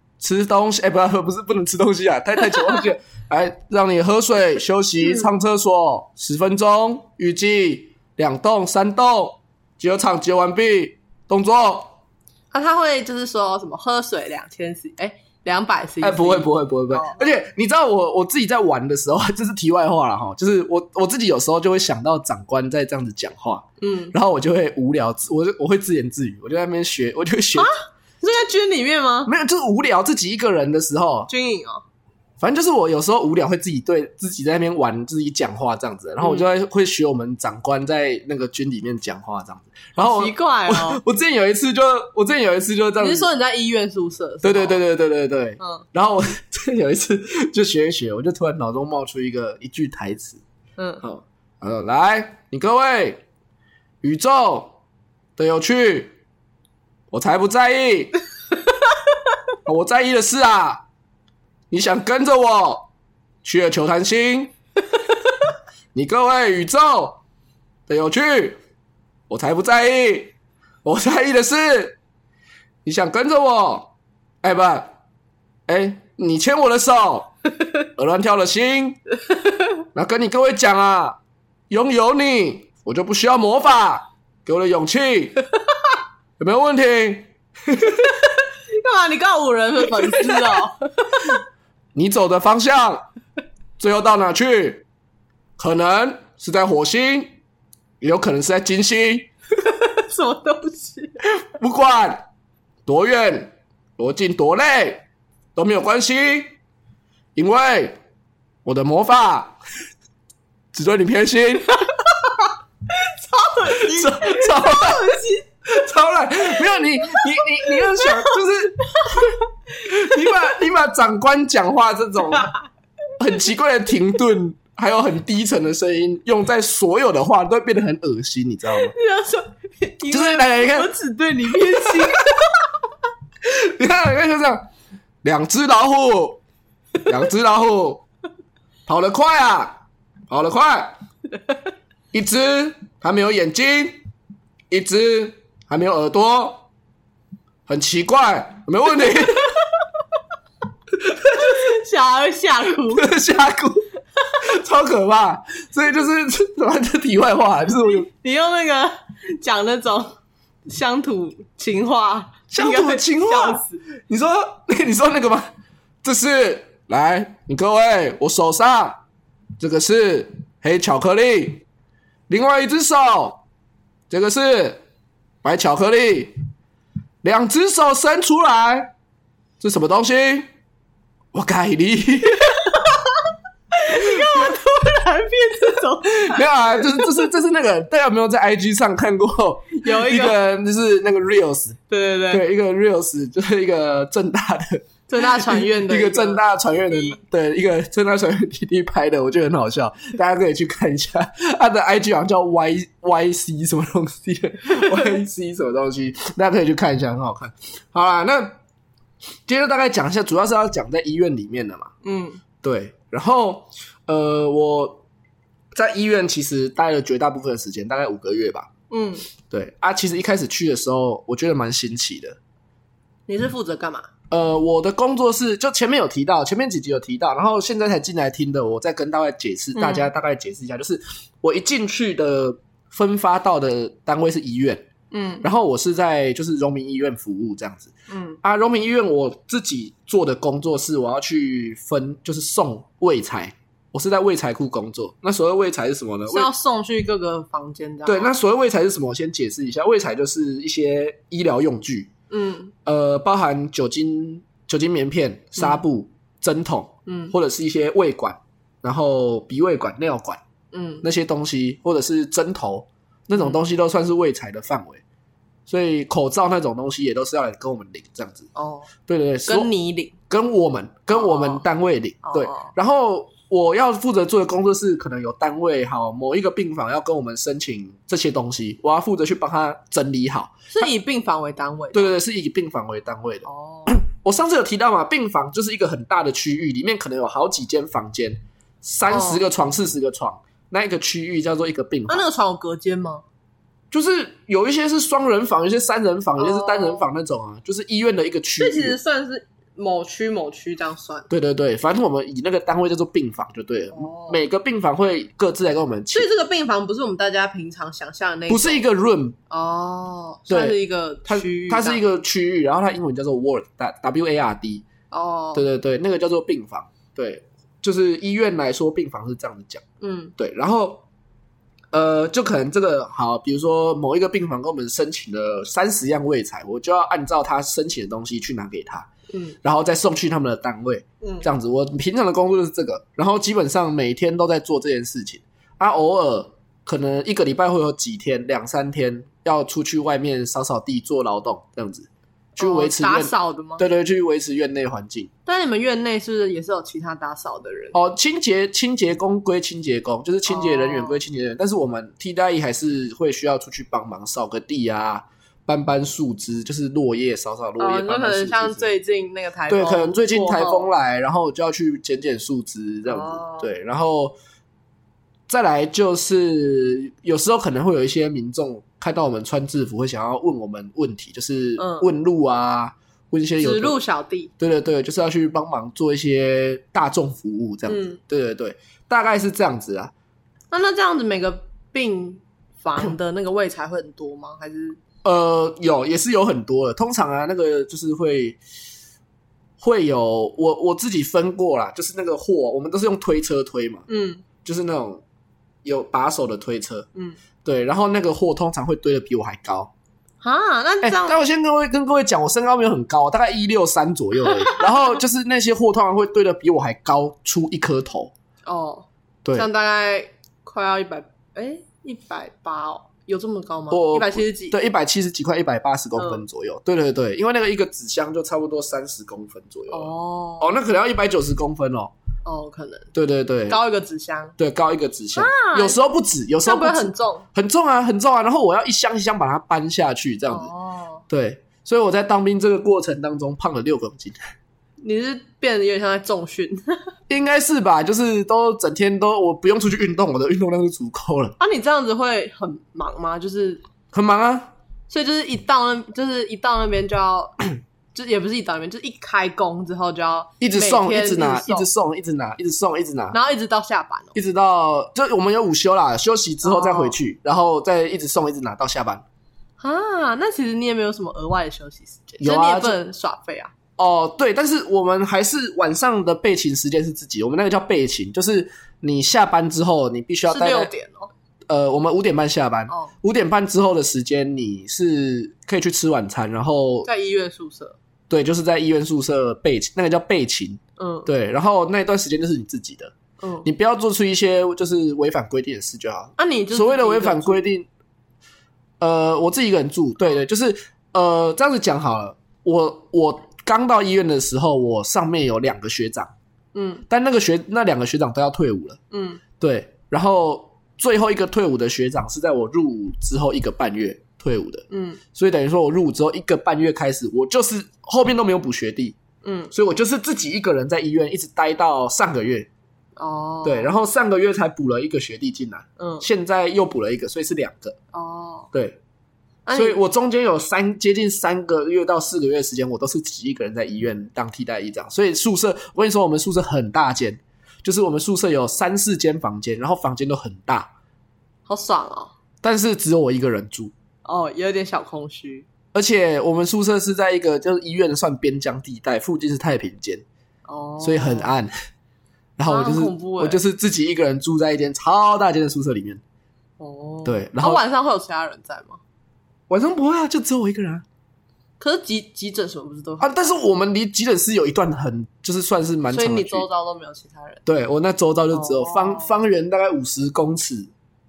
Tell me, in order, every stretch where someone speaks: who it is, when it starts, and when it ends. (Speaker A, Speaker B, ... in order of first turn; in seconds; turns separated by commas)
Speaker A: 0.2-11.9, Speaker B: 2.5-2.8, Speaker B: 12.5-17.2, Speaker A: 16.0-27.7, Speaker B: 23.8-24.1, Speaker B: 27.6-29.3, Speaker A: 29.2-31.3, Speaker B: 31.3-31.8, Speaker A: 32.4-43.3, Speaker B: 36.2-36.5, Speaker B: 40.0-41.0, Speaker B: 43.0-44.8, Speaker A: 44.4-50.4, Speaker B: 45.6-45.8, Speaker B: 50.8-51.0, Speaker A: 51.0-53.2, Speaker A: 54.0-54.8, Speaker A: 55.4-56.1, Speaker A: 57.1-58.1, Speaker A: 59.6-60.8, Speaker A: 61.7-62.9, Speaker A: 63.4-64.5, Speaker A: 65.9-67.2, Speaker A: 67.9-68.6, Speaker A: 69.3-70.3, Speaker A: 70.8-72.0, Speaker A: 72.8-73.9, Speaker A: 74.4-74.9, Speaker A: 75.7-77.3, Speaker A: 78.0-79.0, Speaker B: 79.3-79.7, Speaker A: 79.9-81.2, Speaker A: 81.7-85.4, Speaker A: 86.4-88.2, Speaker B: 88.8-91.3, Speaker A: 90.0-90.6, Speaker A: 91.9-93.0, Speaker A: 93.8-94.8, Speaker A: 95.6-97.3, Speaker A: 98.0-99.3, Speaker B: 99.7-101.2, Speaker A: 101.4-102.2, Speaker A: 102.8-105.0, Speaker A: 105.5-106.5, Speaker A: 107.3-108.0, Speaker A: 108.6-109.6, Speaker A: 110.7-111.8, Speaker B: 111.9-115.5, Speaker A: 113.7-115.1, Speaker A: 115.7-122.5, Speaker B: 117.0-120.4, Speaker A: 123.2-128.9, Speaker B: 128.7-132.6, Speaker A: 130.1-130.9, Speaker A: 131.6-132.1, Speaker A: 133.4-134.6, Speaker A: 135.2-136.4, Speaker A: 137.1-138.0, Speaker A: 138.9-139.8, Speaker A: 140.3-141.0, Speaker A: 142.1-144.0, Speaker A: 144.7-146.6, Speaker A: 147.7-149.5, Speaker B: 149.2-149.6, Speaker A: 151.0-151.6, Speaker B: 151.3-153.1, Speaker A: 152.9-153.8, Speaker A: 154.4-158.1, Speaker B: 157.9-163.8, Speaker A: 162.5-169.0, Speaker A: 169.6-171.6, Speaker A: 172.3-173.4, Speaker A: 174.1-174.8, Speaker A: 175.4-176.3, Speaker A: 177.2-178.9, Speaker A: 179.6-180.5, Speaker A: 181.3-182.7, Speaker B: 182.4-183.2, Speaker B: 183.7-187.3, Speaker A: 183.9-184.5, Speaker A: 186.2-191.8, Speaker B: 189.8-190.3, Speaker B: 191.9-192.4, Speaker A: 192.3-208.5, Speaker B: 195.1-197.2, Speaker B: 204.7-205.1, Speaker A: 209.5-211.9, Speaker B: 212.0-212.4, Speaker A: 212.6-215.0, Speaker A: 215.7-218.7, Speaker B: 218.9-219.2, Speaker A: 219.5-222.4, Speaker B: 223.3-224.1, Speaker A: 224.3-234.9, Speaker B: 229.7-230.1, Speaker B: 235.1-235.4, Speaker A: 235.4-237.9, Speaker B: 238.1-238.4, Speaker A: 238.4-246.5, Speaker B: 246.3-248.3, Speaker A: 248.1-252.1, Speaker B: 252.3-252.7, Speaker A: 252.8-260.4, Speaker B: 257.1-257.3, Speaker B: 260.7-261.0, Speaker A: 261.0-265.0, Speaker A: 265.7-268.5, Speaker B: 268.5-268.9, Speaker A: 269.1-269.7, Speaker B: 269.5-270.1, Speaker A: 270.3-280.9, Speaker B: 271.1-271.6, Speaker B: 272.2-272.7, Speaker B: 280.7-282.2, Speaker A: 281.9-292.2, Speaker B: 283.4-284.0, Speaker B: 289.1-289.4, Speaker B: 292.1-293.2, Speaker A: 293.9-299.0, Speaker B: 296.4-297.1, Speaker B: 298.6-301.3, Speaker A: 301.3-306.3, Speaker B: 303.9-304.4, Speaker B: 306.1-308.8, Speaker A: 308.5-309.4, Speaker B: 309.5-312.0, Speaker A: 310.5-314.9, Speaker B: 315.1-315.6, Speaker A: 315.5-319.8, Speaker B: 320.0-320.3, Speaker A: 320.4-321.0, Speaker A: 321.9-329.1, Speaker B: 329.3-329.6, Speaker A: 329.6-345.3, Speaker B: 331.2-331.5, Speaker B: 342.6-343.8, Speaker B: 345.4-348.0, Speaker A: 347.9-358.9, Speaker B: 350.4-351.2, Speaker B: 357.8-360.9, Speaker A: 359.7-364.3, Speaker B: 363.0-363.7, Speaker A: 365.5-374.0, Speaker B: 371.8-372.1, Speaker B: 373.6-374.5, Speaker A: 374.6-380.1, Speaker B: 377.9-378.2, Speaker B: 380.7-385.0, Speaker A: 385.2-388.6, Speaker A: 389.8-394.1, Speaker B: 394.1-394.4, Speaker A: 394.6-395.2, Speaker A: 395.8-397.1, Speaker A: 397.6-399.9, Speaker B: 400.4-401.4, Speaker A: 401.0-408.3, Speaker B: 404.5-404.8, Speaker B: 408.6-414.8, Speaker A: 413.9-422.1, Speaker B: 416.2-416.4, Speaker B: 419.9-420.8, Speaker B: 422.4-423.1, Speaker A: 423.1-423.8, Speaker B: 423.7-424.5, Speaker A: 424.6-430.7, Speaker B: 425.3-426.0, Speaker B: 426.6-427.4, Speaker B: 430.5-431.2, Speaker A: 431.3-434.4, Speaker B: 435.0-437.1, Speaker A: 437.3-441.6, Speaker B: 441.6-443.8, Speaker A: 444.1-444.7, Speaker B: 445.1-447.6, Speaker B: 448.1-451.9, Speaker A: 450.6-453.4, Speaker B: 453.3-454.3, Speaker A: 454.3-459.2, Speaker B: 456.6-457.1, Speaker B: 459.8-463.7, Speaker A: 462.4-463.0, Speaker A: 464.0-470.9, Speaker B: 470.5-471.3, Speaker A: 471.7-477.1, Speaker B: 472.9-473.1, Speaker B: 477.0-478.0, Speaker A: 478.3-483.1, Speaker B: 481.0-481.3, Speaker B: 483.4-483.7, Speaker A: 483.6-487.9, Speaker B: 486.4-487.7, Speaker A: 489.0-496.3, Speaker B: 496.7-497.0, Speaker A: 497.1-499.0, Speaker B: 499.1-499.4, Speaker A: 499.6-509.2, Speaker B: 504.9-505.2, Speaker B: 509.4-509.7, Speaker A: 509.7-512.7, Speaker B: 513.2-513.9, Speaker A: 513.6-518.0, Speaker B: 516.0-516.2, Speaker B: 518.1-518.7, Speaker A: 518.7-519.0, Speaker B: 519.6-520.0, Speaker A: 519.7-530.9, Speaker B: 531.7-532.3, Speaker A: 532.6-533.9, Speaker B: 534.2-535.7, Speaker A: 535.9-540.2, Speaker B: 540.7-541.5, Speaker A: 541.0-541.7, Speaker A: 542.6-546.2, Speaker B: 542.7-543.6, Speaker B: 546.8-549.0, Speaker A: 547.2-547.8, Speaker A: 549.7-551.0, Speaker B: 551.8-553.6, Speaker A: 553.2-556.7, Speaker B: 556.1-557.6, Speaker A: 557.6-560.9, Speaker B: 558.5-559.3